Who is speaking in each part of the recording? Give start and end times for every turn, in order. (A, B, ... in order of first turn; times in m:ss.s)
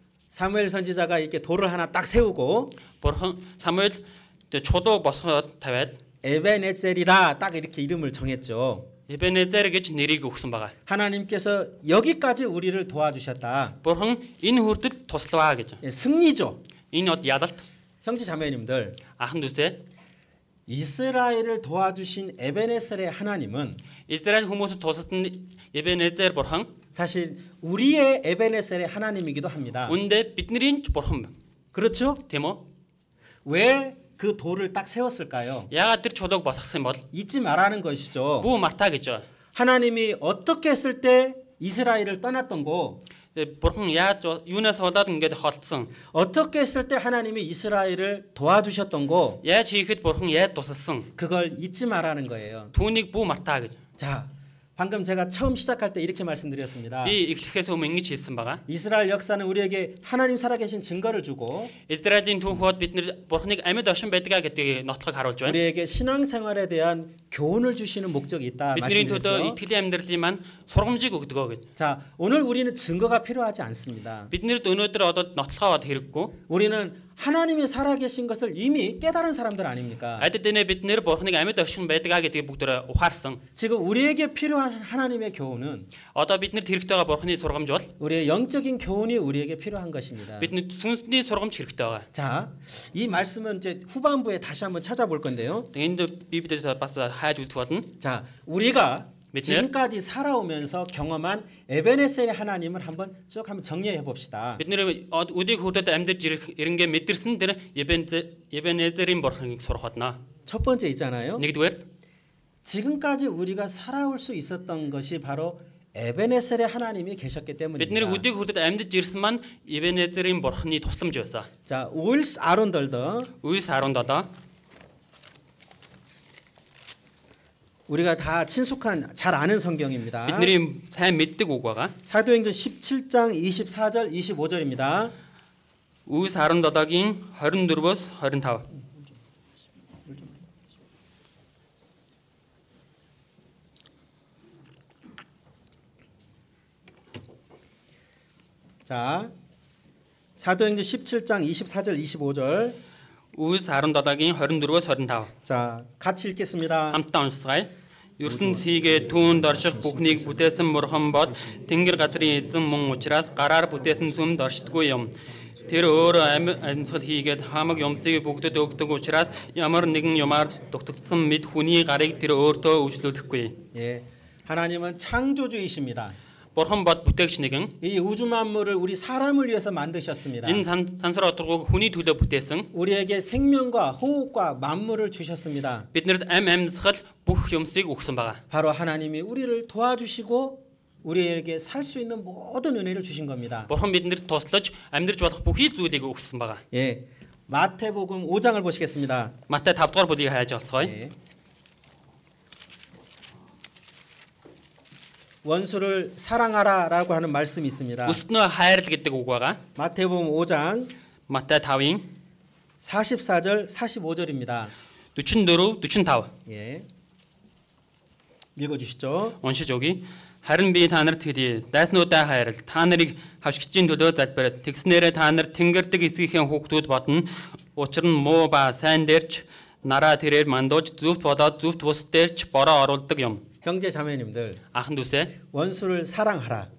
0:00.3-0:02.7 A
0:03.0-0:06.0 B
0:06.2-0:08.9 A
0:09.1-0:10.8 B
0:10.9-0:13.8 A
0:13.8-0:15.8 B
0:15.8-0:16.6 A
0:16.9-0:17.6 B
0:18.0-0:19.0 A
0:19.2-0:19.8 B
0:20.7-0:23.8 A
0:24.1-0:26.7 B
0:26.9-0:30.0 A
0:29.9-0:31.3 B
0:31.7-0:32.2 A
0:32.3-0:32.6 B
0:33.4-0:35.7 A
0:35.7-0:37.0 B
0:37.1-0:38.5 A
0:38.4-0:39.2 B
0:39.6-0:43.0 A
0:43.4-0:45.9 B
0:46.1-0:49.4 A
0:49.4-0:51.1 B
0:51.2-0:52.7 A
0:52.7-0:53.8 B
0:54.0-0:57.2 A
0:57.0-0:58.6 B
0:58.7-1:01.7 A
1:01.9-1:05.6 B
1:05.4-1:09.6 A
1:08.7-1:11.6 B
1:11.8-1:14.3 A
1:14.3-1:16.3 B
1:16.5-1:20.3 A
1:20.2-1:23.4 B
1:23.6-1:25.9 A
1:26.1-1:27.9 B
1:28.0-1:30.5 A
1:30.4-1:32.1 B
1:32.1-1:35.7 A
1:35.7-1:37.9 B
1:38.0-1:44.6 A
1:39.3-1:39.7 B
1:44.6-1:50.2 B
1:50.5-1:51.4 A
1:51.4-1:51.8 B
1:52.6-1:58.3 A
1:57.8-2:01.5 B
2:01.7-2:03.3 A
2:03.4-2:04.3 B
2:07.9-2:10.6 A
2:10.3-2:11.9 B
2:12.1-2:15.1 A
2:16.1-2:18.7 B
2:20.1-2:20.4 A
2:28.8-2:29.3 A
2:30.4-2:32.8 A
2:33.3-2:35.3 B
2:35.4-2:37.0 A
2:36.9-2:53.6 B
2:38.2-2:40.4 A
2:53.7-2:56.2 A
2:56.6-2:57.7 B
2:57.8-3:00.6 A
3:00.4-3:02.7 B
3:02.7-3:05.9 A
3:05.9-3:08.4 B
3:08.5-3:13.7 A
3:13.7-3:16.6 B
3:16.7-3:19.4 A
3:19.5-3:20.9 B
3:20.8-3:21.2 A
3:25.4-3:28.2 A
3:28.1-3:29.6 B
3:29.8-3:30.9 A
3:31.3-3:32.1 B
3:32.8-3:34.7 A
3:35.2-3:36.3 B
3:36.5-3:36.9 A
3:38.6-3:39.4 A
3:39.4-3:53.4 B
3:53.6-3:54.6 A
3:54.7-3:55.3 B
3:55.5-3:56.7 A